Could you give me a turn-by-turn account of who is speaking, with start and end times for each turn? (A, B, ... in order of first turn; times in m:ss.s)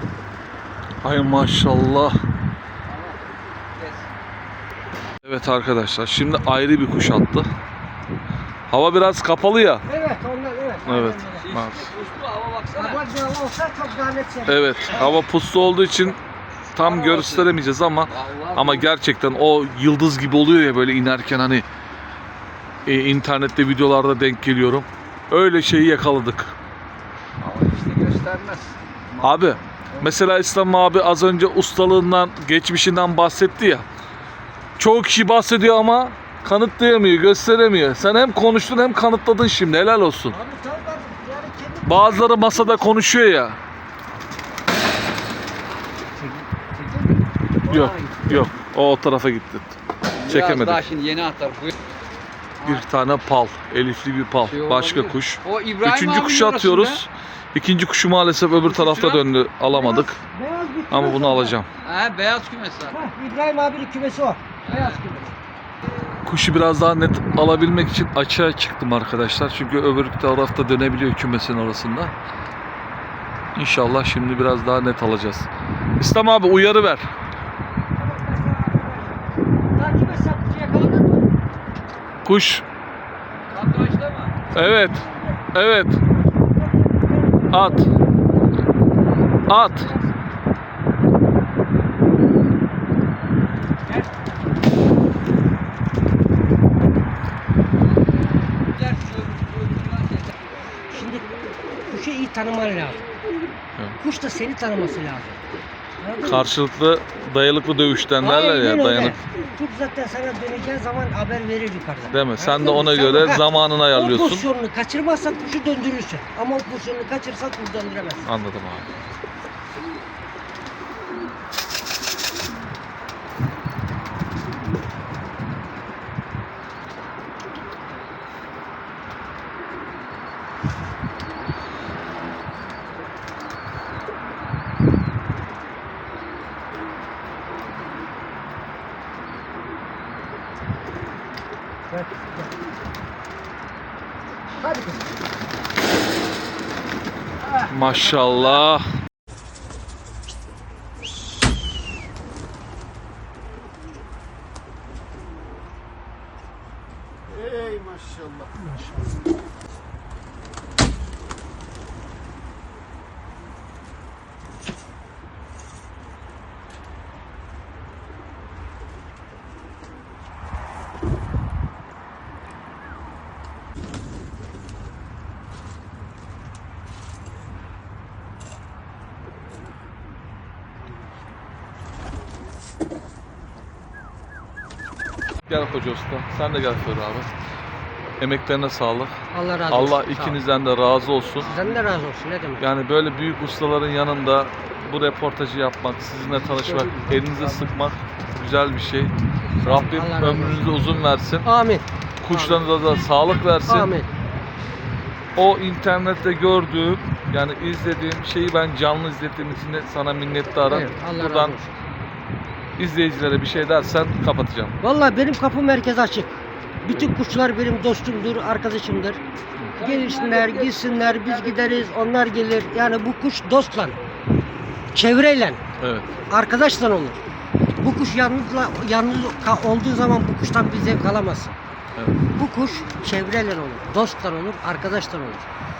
0:01.0-0:02.2 A
0:02.9-0:03.2 B
0:03.8-0:04.0 B
0:05.2-0:07.5 A
0:08.7-0:09.8 A
0:09.9-0:11.5 C
0:10.9-0:11.9 A
0:11.3-0:13.0 B
0:12.7-0:15.2 C
0:14.5-0:16.2 A
0:16.7-0:21.7 A
0:16.8-0:17.5 B
0:18.1-0:18.9 B
0:22.9-0:26.5 A
0:27.4-0:29.4 B
0:29.2-0:33.9 A
0:34.8-0:40.4 A
0:40.3-0:42.9 C
0:41.9-0:43.6 A
0:46.2-0:48.3 B
0:47.7-0:50.9 A
0:50.2-0:51.7 B
0:52.6-1:00.2 A
0:54.5-0:57.0 B
0:58.6-0:59.2 B
0:59.7-1:01.6 C
1:00.9-1:01.7 A
1:01.8-1:03.0 B
1:02.9-1:05.3 C
1:04.7-1:05.0 B
1:06.2-1:12.1 A
1:13.6-1:15.5 A
1:16.0-1:17.1 A
1:18.0-1:19.2 C
1:19.8-1:21.3 C
1:22.2-1:22.6 A
1:23.5-1:24.4 B
1:24.5-1:26.0 A
1:24.6-1:25.4 C
1:26.2-1:28.0 C
1:27.5-1:27.9 A
1:29.5-1:30.0 C
1:29.5-1:29.9 A
1:37.9-1:40.3 B
1:40.9-1:43.0 C
1:44.0-1:45.4 C
1:46.0-1:46.5 C
1:46.2-1:49.2 A
1:48.2-1:58.3 C
1:52.1-1:54.4 A
1:58.3-1:58.9 A
2:21.9-2:22.5 C
2:24.6-2:25.1 C
2:27.7-2:28.9 A
2:37.7-2:38.3 B
3:05.5-3:07.3 A
3:08.2-3:09.1 A
3:09.3-3:10.4 C
3:09.7-3:11.5 A
3:11.4-3:12.6 C
3:12.6-3:21.5 A
3:16.4-3:17.7 B
3:19.6-3:20.8 C
3:21.4-3:22.7 C
3:22.2-3:23.9 A
3:23.7-3:24.1 C
3:25.4-3:31.6 A
3:30.7-3:31.7 C
3:32.8-3:34.8 A
3:34.8-3:39.2 C
3:39.7-3:41.8 B
3:39.8-3:44.0 C
3:44.9-3:45.6 C
3:45.8-3:46.1 A
3:46.3-3:47.2 C
3:47.8-3:51.6 C
3:52.0-3:52.2 A
3:52.3-3:55.5 C